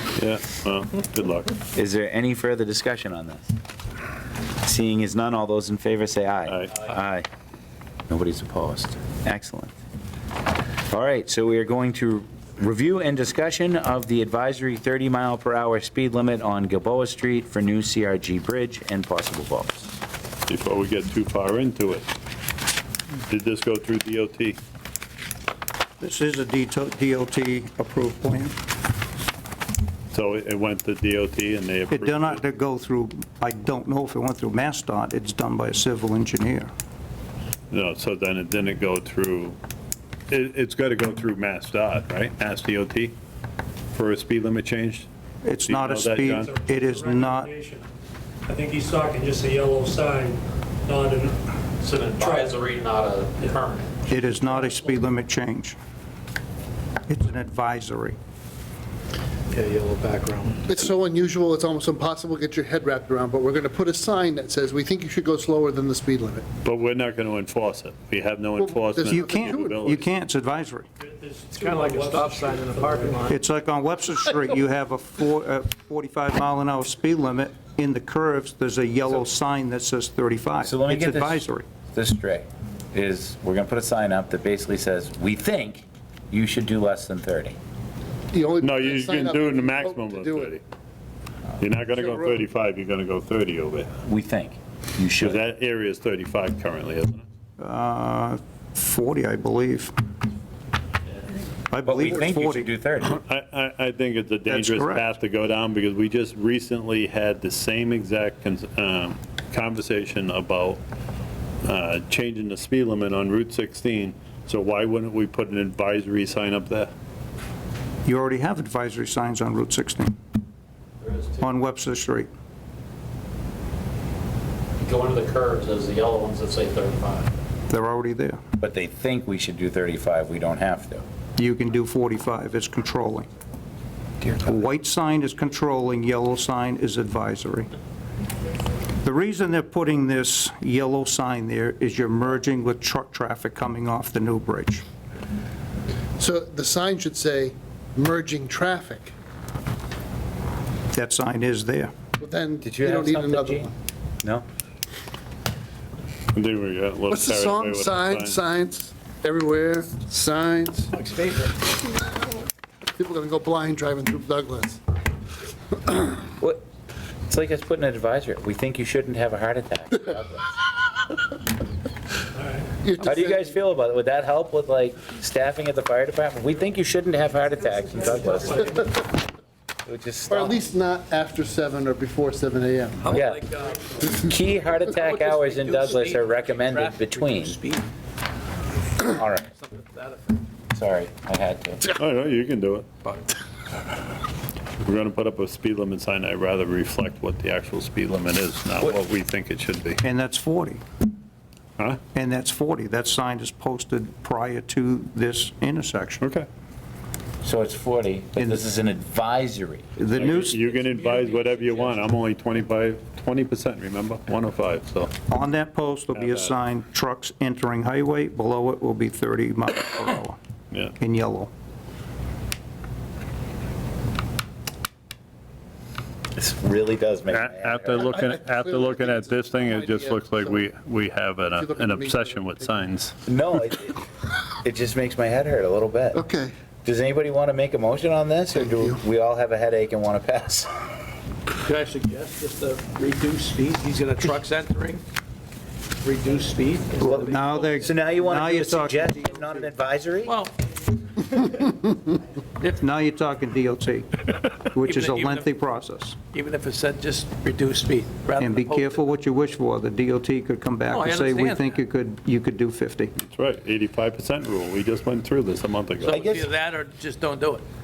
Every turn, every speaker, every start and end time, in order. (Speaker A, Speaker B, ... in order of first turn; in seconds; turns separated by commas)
Speaker A: 0.2-1.5, Speaker B: 1.7-3.5, Speaker B: 4.6-7.2, Speaker A: 6.5-6.9, Speaker B: 8.1-9.7, Speaker B: 10.9-19.9, Speaker A: 20.5-22.1, Speaker A: 23.3-24.6, Speaker C: 26.0-28.5, Speaker A: 30.1-32.4, Speaker C: 31.9-36.7, Speaker A: 37.7-39.6, Speaker A: 40.3-43.1, Speaker A: 43.9-45.1, Speaker C: 45.4-47.5, Speaker A: 45.6-46.6, Speaker D: 46.3-47.8, Speaker D: 48.5-51.4, Speaker E: 51.8-53.9, Speaker D: 52.1-52.5, Speaker C: 54.1-55.8, Speaker C: 57.1-58.2, Speaker F: 60.7-66.4, Speaker A: 66.6-70.1, Speaker F: 68.6-69.8, Speaker C: 69.1-70.9, Speaker D: 71.0-73.4, Speaker G: 71.5-73.3, Speaker C: 73.3-81.7, Speaker B: 80.6-87.5, Speaker F: 88.3-90.5, Speaker A: 88.6-90.6, Speaker A: 91.6-93.9, Speaker F: 92.0-92.3, Speaker B: 94.0-95.4, Speaker A: 95.2-97.2, Speaker C: 97.6-99.9, Speaker C: 101.7-102.7, Speaker B: 101.8-103.2, Speaker A: 103.0-110.8, Speaker C: 104.5-105.1, Speaker A: 111.6-116.9, Speaker C: 118.0-120.1, Speaker E: 121.0-121.4, Speaker C: 121.4-122.3, Speaker E: 124.8-127.3, Speaker C: 127.7-128.4, Speaker B: 128.6-131.1, Speaker C: 131.4-133.3, Speaker B: 134.2-134.5, Speaker C: 134.4-137.7, Speaker C: 139.0-144.8, Speaker F: 146.2-149.1, Speaker C: 150.9-151.9, Speaker F: 152.2-153.7, Speaker B: 152.6-153.7, Speaker A: 156.3-158.4, Speaker F: 157.1-160.9, Speaker G: 160.9-161.6, Speaker F: 163.0-164.8, Speaker B: 167.3-170.5, Speaker D: 172.4-172.7, Speaker F: 172.8-173.5, Speaker B: 173.0-178.8, Speaker D: 177.9-178.7, Speaker B: 179.8-180.6, Speaker F: 180.3-183.1, Speaker G: 183.0-184.2, Speaker B: 183.1-183.4, Speaker B: 184.0-187.6, Speaker G: 184.9-187.9, Speaker B: 189.0-189.5, Speaker G: 189.5-190.4, Speaker B: 190.7-191.9, Speaker A: 191.9-192.9, Speaker A: 194.8-200.0, Speaker C: 200.0-200.8, Speaker C: 202.1-206.2, Speaker A: 206.2-206.5, Speaker B: 207.4-209.9, Speaker C: 210.0-210.6, Speaker A: 210.1-215.1, Speaker G: 210.5-212.0, Speaker C: 215.3-220.4, Speaker A: 216.1-216.5, Speaker C: 220.9-221.5, Speaker B: 226.3-228.2, Speaker A: 227.3-233.1, Speaker F: 227.9-230.6, Speaker F: 231.5-232.7, Speaker B: 233.3-234.0, Speaker B: 234.6-236.2, Speaker F: 236.1-236.5, Speaker B: 236.8-240.7, Speaker F: 238.6-239.0, Speaker G: 241.6-245.0, Speaker G: 246.0-247.8, Speaker B: 247.0-250.3, Speaker C: 247.0-249.7, Speaker G: 250.2-250.5, Speaker C: 252.6-256.2, Speaker G: 254.8-255.7, Speaker G: 256.3-259.1, Speaker C: 258.4-263.1, Speaker G: 260.9-261.8, Speaker A: 263.2-266.3, Speaker G: 266.0-267.6, Speaker B: 266.1-266.5